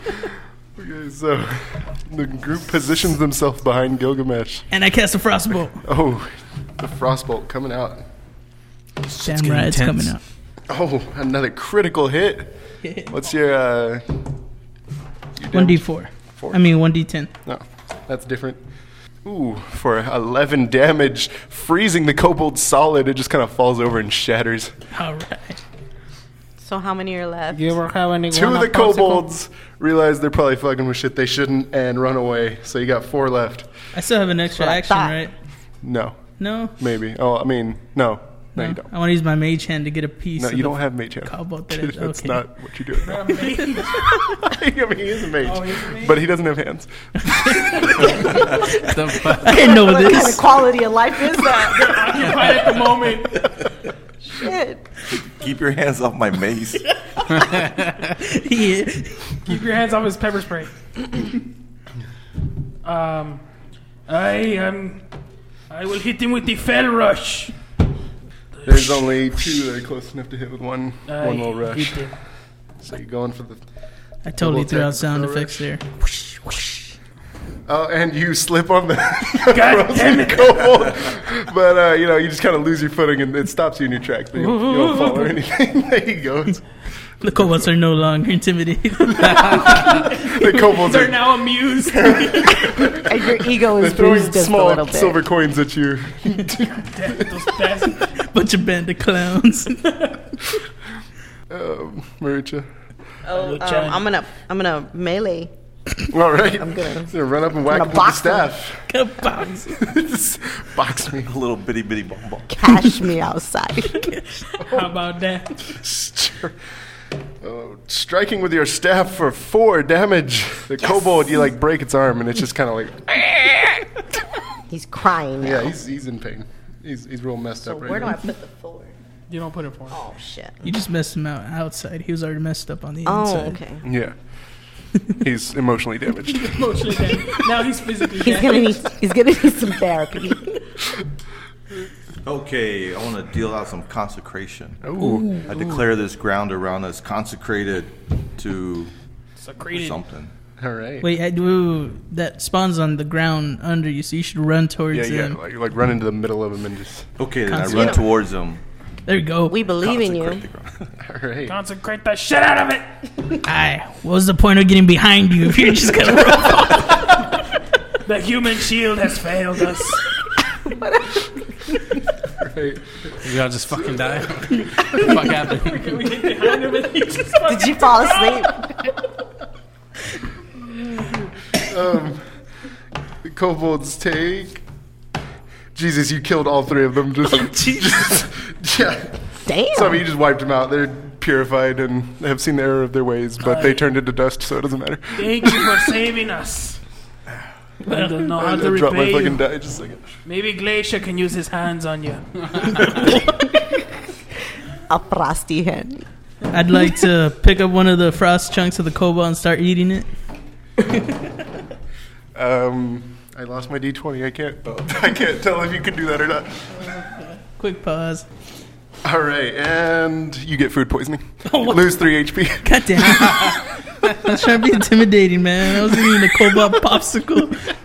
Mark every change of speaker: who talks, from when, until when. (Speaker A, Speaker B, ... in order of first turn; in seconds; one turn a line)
Speaker A: 0.8-4.7
Speaker B: 4.7-5.8
Speaker A: 5.8-8.0
Speaker C: 9.1-10.2
Speaker B: 9.2-10.2
Speaker A: 10.7-12.6
Speaker B: 12.8-13.1
Speaker A: 13.1-14.2
Speaker A: 15.4-16.6
Speaker B: 15.5-17.3
Speaker A: 17.4-18.6
Speaker A: 19.2-24.7
Speaker B: 24.9-25.6
Speaker D: 26.6-27.8
Speaker E: 27.5-29.3
Speaker A: 28.3-33.7
Speaker B: 33.9-35.3
Speaker D: 34.6-35.2
Speaker A: 35.8-36.2
Speaker B: 36.4-36.8
Speaker A: 36.8-38.9
Speaker B: 38.5-42.5
Speaker A: 40.4-43.4
Speaker E: 43.0-44.0
Speaker A: 44.4-47.3
Speaker E: 45.4-46.2
Speaker B: 47.4-47.9
Speaker C: 48.8-49.6
Speaker B: 49.4-50.5
Speaker D: 49.6-52.6
Speaker E: 51.5-53.5
Speaker D: 54.2-54.9
Speaker F: 55.3-56.8
Speaker C: 57.3-58.0
Speaker B: 58.1-59.2
Speaker E: 59.5-60.7
Speaker E: 62.8-63.4
Speaker E: 64.1-65.0
Speaker E: 65.7-67.5
Speaker E: 68.6-69.1
Speaker A: 68.7-72.1
Speaker E: 71.1-72.2
Speaker A: 72.8-73.6
Speaker B: 74.2-75.8
Speaker A: 74.4-75.7
Speaker A: 77.7-86.7
Speaker E: 79.4-80.8
Speaker E: 84.4-85.3
Speaker B: 87.2-90.0
Speaker A: 89.2-91.2
Speaker E: 89.9-92.6
Speaker A: 91.9-97.3
Speaker D: 92.8-95.2
Speaker E: 96.8-98.1
Speaker B: 98.3-100.0
Speaker A: 101.5-102.7
Speaker D: 103.3-105.5
Speaker E: 103.3-104.0
Speaker A: 106.1-108.9
Speaker D: 106.5-108.5
Speaker B: 108.9-109.8
Speaker A: 109.8-111.3
Speaker F: 111.2-112.5
Speaker D: 112.5-114.1
Speaker E: 114.6-115.5
Speaker A: 114.6-114.9
Speaker A: 115.6-116.6
Speaker A: 117.4-124.0
Speaker D: 120.8-121.3
Speaker D: 124.7-125.7
Speaker A: 125.4-128.2
Speaker D: 127.6-128.9
Speaker E: 129.3-130.0
Speaker D: 129.9-130.6
Speaker B: 130.6-133.6
Speaker D: 133.1-133.8
Speaker A: 133.8-134.2
Speaker A: 135.1-137.0
Speaker E: 136.4-138.8
Speaker D: 138.2-140.6
Speaker F: 142.2-144.8
Speaker A: 144.8-145.4
Speaker B: 145.0-145.6
Speaker F: 145.4-148.9
Speaker E: 149.4-150.0
Speaker F: 149.7-150.3
Speaker A: 150.6-151.1
Speaker B: 151.0-155.4
Speaker A: 154.9-157.1
Speaker F: 157.2-158.6
Speaker B: 157.5-158.0
Speaker D: 157.7-158.1
Speaker B: 159.1-159.6
Speaker D: 159.5-160.5
Speaker F: 159.8-160.9
Speaker A: 161.0-161.6
Speaker E: 161.5-163.0
Speaker B: 163.4-167.2
Speaker E: 168.0-170.1
Speaker D: 170.6-171.3
Speaker A: 172.3-173.2
Speaker C: 173.2-175.9
Speaker E: 175.5-178.6
Speaker D: 177.5-178.7
Speaker A: 180.7-182.2
Speaker A: 183.2-184.6
Speaker A: 185.7-195.8
Speaker B: 187.4-187.9
Speaker D: 189.5-190.0
Speaker E: 195.2-196.8
Speaker E: 197.9-199.4
Speaker A: 198.3-200.2
Speaker E: 200.2-203.0
Speaker D: 203.2-203.6
Speaker D: 204.9-206.0
Speaker B: 206.5-210.1
Speaker A: 212.3-216.6
Speaker B: 216.9-218.3
Speaker A: 219.0-223.1
Speaker B: 221.5-221.9
Speaker B: 222.6-227.6